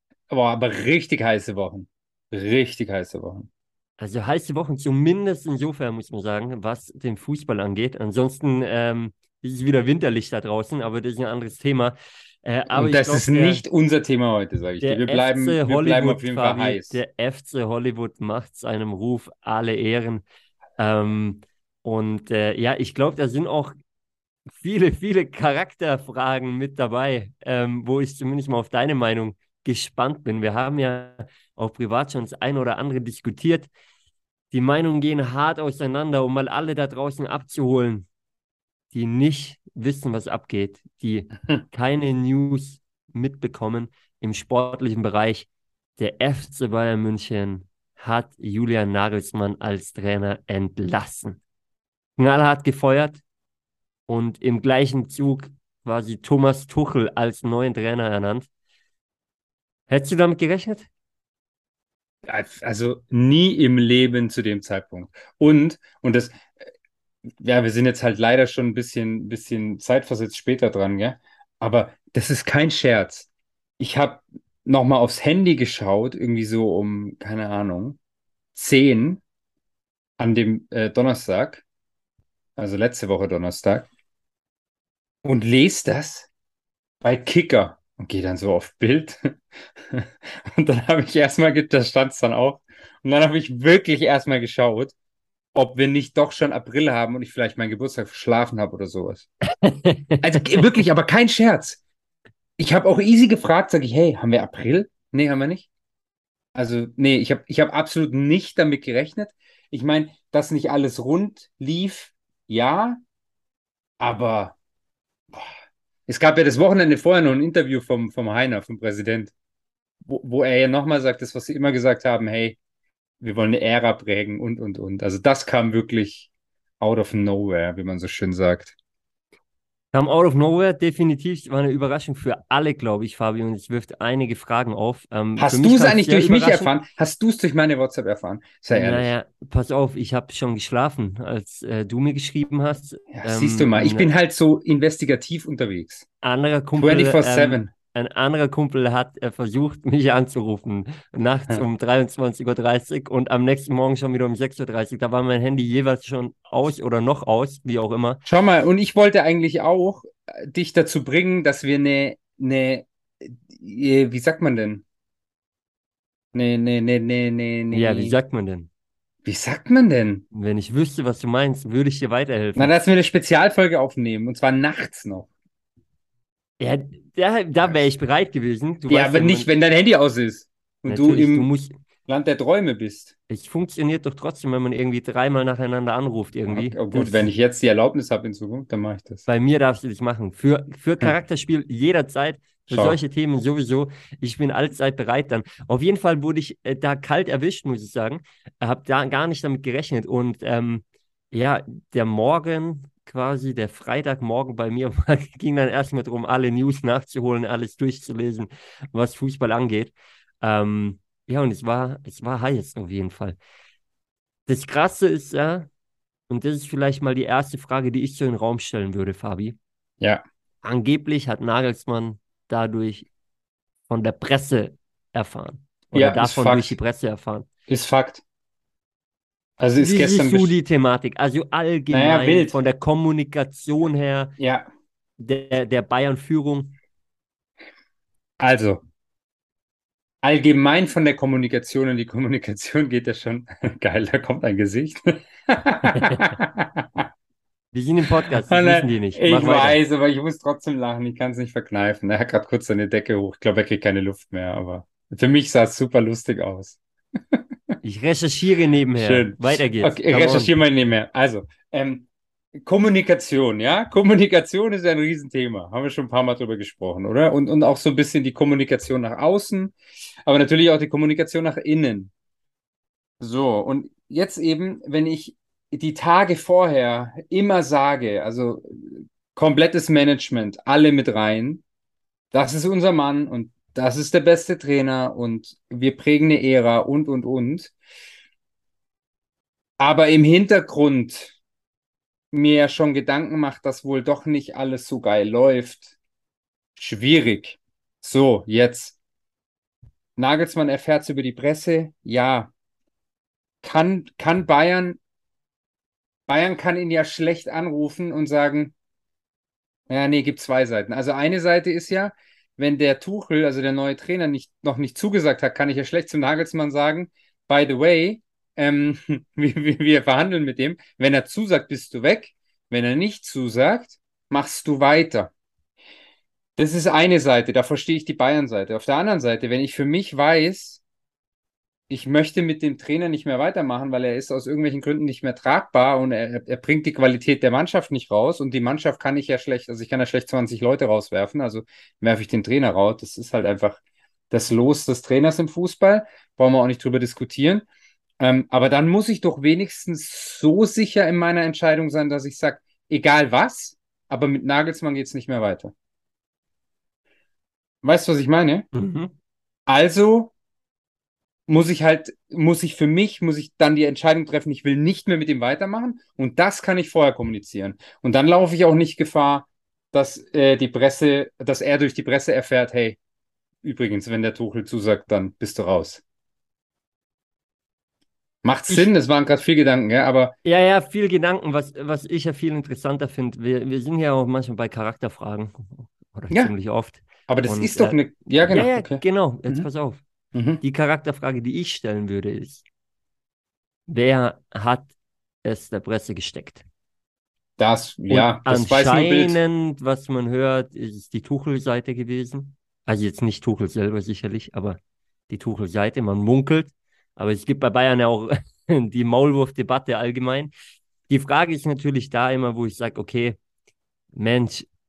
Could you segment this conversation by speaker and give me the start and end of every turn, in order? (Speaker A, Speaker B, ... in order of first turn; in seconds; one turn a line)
Speaker A: 0.3-3.5
Speaker B: 4.0-13.6
Speaker A: 12.7-17.0
Speaker B: 14.8-20.2
Speaker B: 20.8-23.8
Speaker B: 24.5-33.7
Speaker B: 34.5-38.1
Speaker B: 38.9-45.5
Speaker B: 46.0-51.4
Speaker B: 52.2-53.2
Speaker B: 54.1-58.5
Speaker B: 59.9-60.9
Speaker A: 62.2-66.5
Speaker A: 67.4-73.3
Speaker A: 73.8-78.0
Speaker A: 78.5-79.2
Speaker A: 80.2-81.6
Speaker A: 82.6-83.9
Speaker A: 85.2-86.3
Speaker A: 87.0-94.9
Speaker A: 95.5-99.3
Speaker B: 99.6-100.8
Speaker A: 100.2-101.8
Speaker A: 102.6-105.7
Speaker A: 106.5-113.0
Speaker A: 114.0-114.5
Speaker A: 116.1-119.3
Speaker A: 120.0-122.6
Speaker A: 123.2-126.3
Speaker A: 126.8-128.7
Speaker B: 129.9-136.7
Speaker A: 135.4-139.1
Speaker B: 138.7-144.1
Speaker A: 143.1-146.1
Speaker B: 146.2-158.2
Speaker A: 146.8-147.7
Speaker A: 158.2-164.8
Speaker A: 166.3-168.2
Speaker B: 167.7-168.7
Speaker A: 169.2-170.2
Speaker B: 170.3-172.7
Speaker A: 172.6-175.3
Speaker B: 176.6-179.5
Speaker A: 178.9-181.5
Speaker B: 180.9-181.7
Speaker A: 182.1-183.1
Speaker B: 183.3-187.3
Speaker A: 186.5-189.2
Speaker B: 189.3-213.4
Speaker A: 192.7-193.0
Speaker B: 214.5-215.7
Speaker B: 216.3-219.6
Speaker B: 220.6-223.1
Speaker B: 223.9-227.5
Speaker A: 225.9-226.7
Speaker A: 227.7-228.2
Speaker A: 229.6-230.5
Speaker B: 229.8-234.3
Speaker A: 231.9-232.6
Speaker A: 234.4-234.7
Speaker B: 235.2-236.8
Speaker A: 238.4-238.8
Speaker A: 240.2-247.1
Speaker B: 245.9-246.3
Speaker B: 247.7-249.8
Speaker A: 248.4-256.8
Speaker B: 257.8-260.6
Speaker A: 259.0-262.1
Speaker A: 262.6-272.1
Speaker A: 273.2-281.6
Speaker A: 282.3-287.7
Speaker A: 289.8-291.4
Speaker A: 292.3-295.9
Speaker A: 296.8-299.0
Speaker A: 300.2-302.5
Speaker A: 303.6-305.0
Speaker A: 306.3-308.7
Speaker A: 309.9-325.3
Speaker A: 326.6-330.8
Speaker A: 331.9-343.8
Speaker A: 344.3-347.6
Speaker A: 348.2-355.7
Speaker A: 357.8-358.7
Speaker B: 358.7-359.1
Speaker A: 359.7-360.3
Speaker A: 361.5-373.0
Speaker A: 373.6-376.0
Speaker A: 378.4-380.3
Speaker B: 380.4-390.0
Speaker A: 387.3-389.6
Speaker A: 390.3-390.6
Speaker B: 390.6-392.6
Speaker B: 393.9-394.9
Speaker B: 395.4-396.6
Speaker A: 397.6-399.4
Speaker B: 398.1-410.5
Speaker B: 411.1-413.4
Speaker B: 414.1-414.7